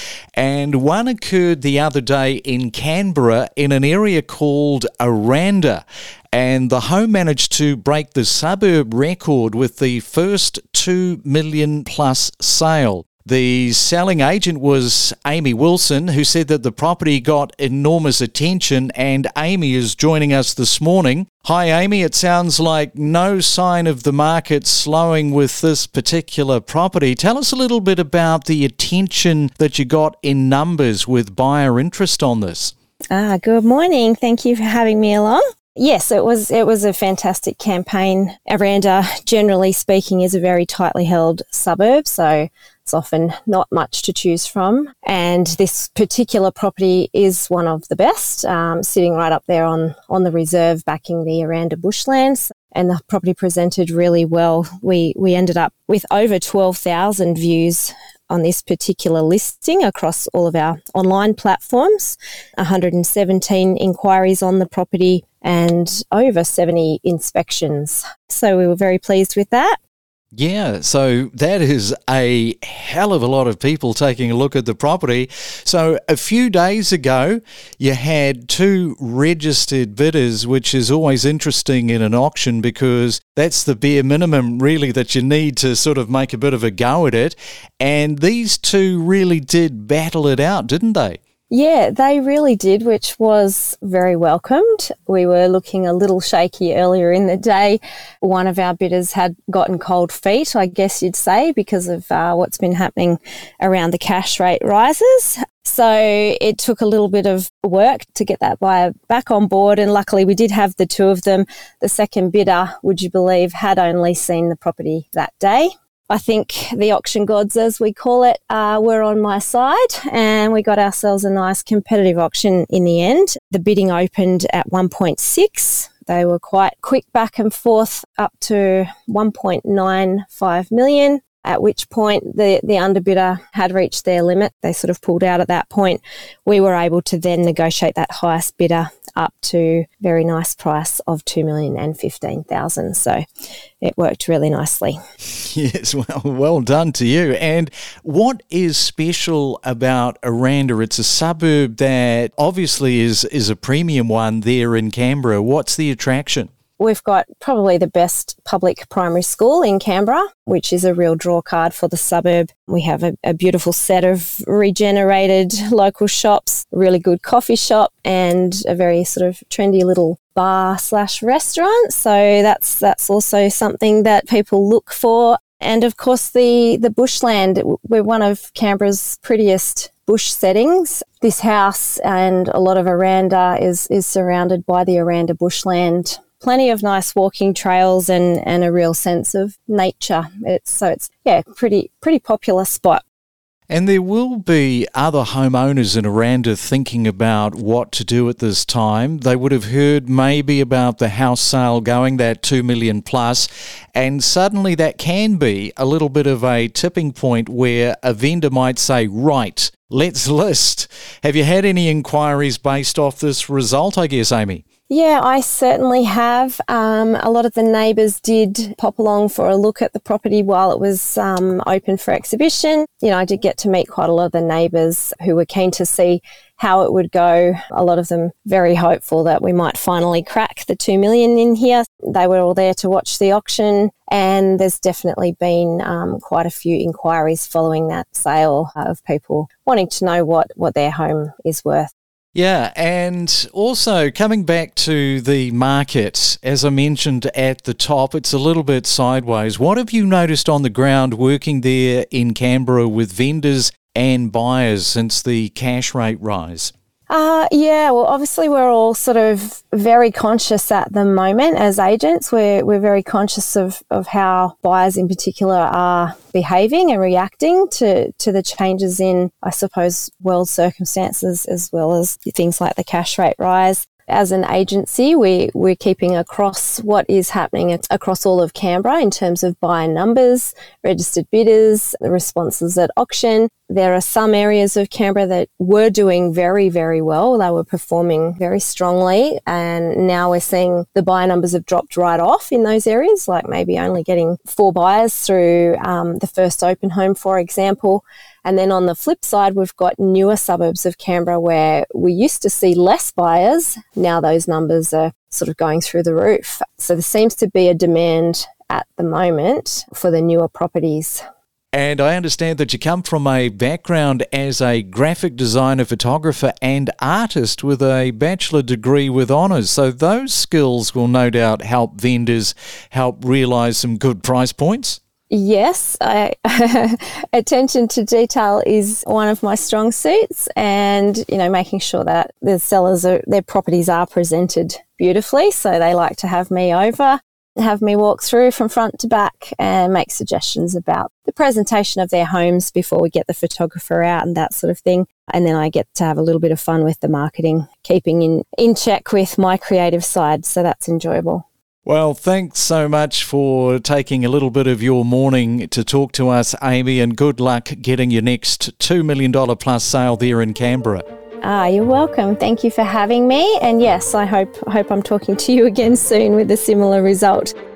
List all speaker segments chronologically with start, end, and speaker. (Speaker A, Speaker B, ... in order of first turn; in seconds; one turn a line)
Speaker A: 0.3-32.7
Speaker B: 33.1-69.8
Speaker A: 70.3-91.2
Speaker B: 91.5-143.2
Speaker B: 143.8-145.0
Speaker A: 145.3-156.5
Speaker B: 156.8-193.0
Speaker A: 193.7-214.6
Speaker B: 214.9-241.9
Speaker A: 242.3-256.7
Speaker B: 257.1-311.2
Speaker A: 311.7-325.0
Speaker B: 325.3-351.4
Speaker A: 351.9-361.0
Speaker B: 361.4-367.5